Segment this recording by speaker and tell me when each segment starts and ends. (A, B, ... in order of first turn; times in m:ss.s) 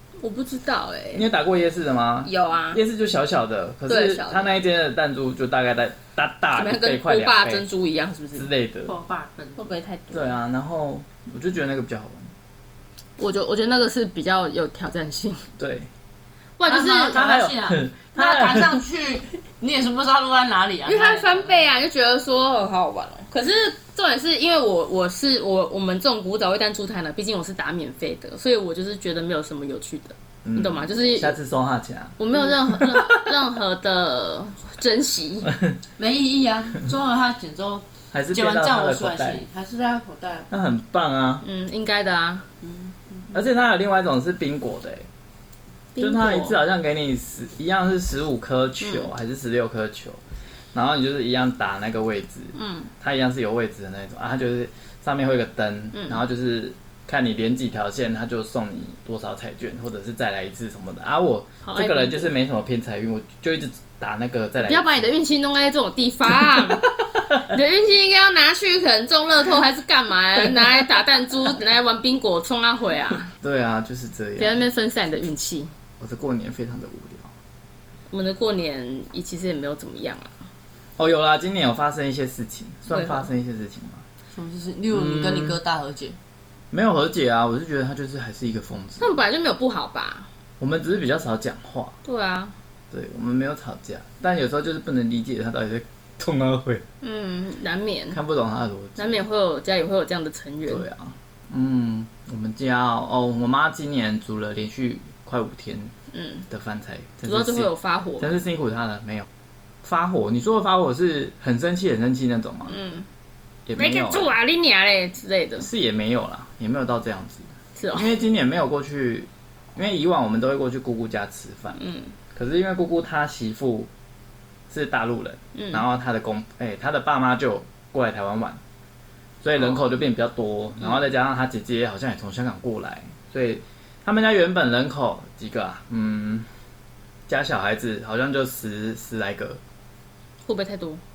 0:00.2-0:01.3 A
0:01.1-0:07.7 B
0:02.2-0:02.8 A
0:03.9-0:04.6 A
0:06.5-0:08.5 A
0:08.4-0:08.9 B
0:08.9-0:09.7 C
0:09.6-0:10.4 A
0:10.1-0:12.3 B
0:13.2-0:15.4 A
0:15.6-0:15.9 B
0:16.6-0:17.2 A
0:16.7-0:21.6 C
0:17.1-0:18.8 B
0:20.9-0:31.4 A
0:30.4-0:33.3 B
0:32.2-0:35.5 A
0:36.0-0:40.5 C
0:38.1-0:39.4 B
0:40.5-0:41.4 B
0:41.4-0:42.4 A
0:42.6-0:43.3 C
0:43.3-0:45.1 B
0:46.0-0:46.6 A
0:46.0-0:50.2 B
0:48.8-0:49.1 A
0:50.7-1:05.0 B
0:52.6-0:52.9 A
0:55.9-0:56.2 A
1:01.6-1:02.3 A
1:04.6-1:13.3 A
1:06.4-1:07.4 B
1:13.4-1:14.6 B
1:14.4-1:15.7 A
1:16.0-1:17.3 B
1:18.1-1:20.3 A
1:21.0-1:24.0 B
1:22.9-1:23.3 A
1:24.3-1:26.2 C
1:24.9-1:25.6 B
1:26.7-1:29.2 B
1:29.0-1:30.3 A
1:30.6-1:32.0 B
1:32.0-1:32.5 A
1:32.9-1:36.8 B
1:37.0-1:38.2 A
1:38.1-1:39.2 B
1:39.0-1:40.9 A
1:40.7-1:45.9 B
1:46.1-1:46.4 A
1:46.5-1:49.3 B
1:47.2-1:48.3 A
1:49.8-1:52.8 B
1:52.7-1:53.1 A
1:53.7-1:54.3 B
1:53.8-1:55.7 A
1:55.6-2:01.8 B
1:57.8-1:58.1 A
2:01.8-2:02.1 A
2:02.4-2:03.9 B
2:04.7-2:08.6 B
2:05.6-2:05.8 A
2:09.4-2:16.5 B
2:09.6-2:09.8 A
2:17.3-2:19.6 B
2:20.5-2:21.0 A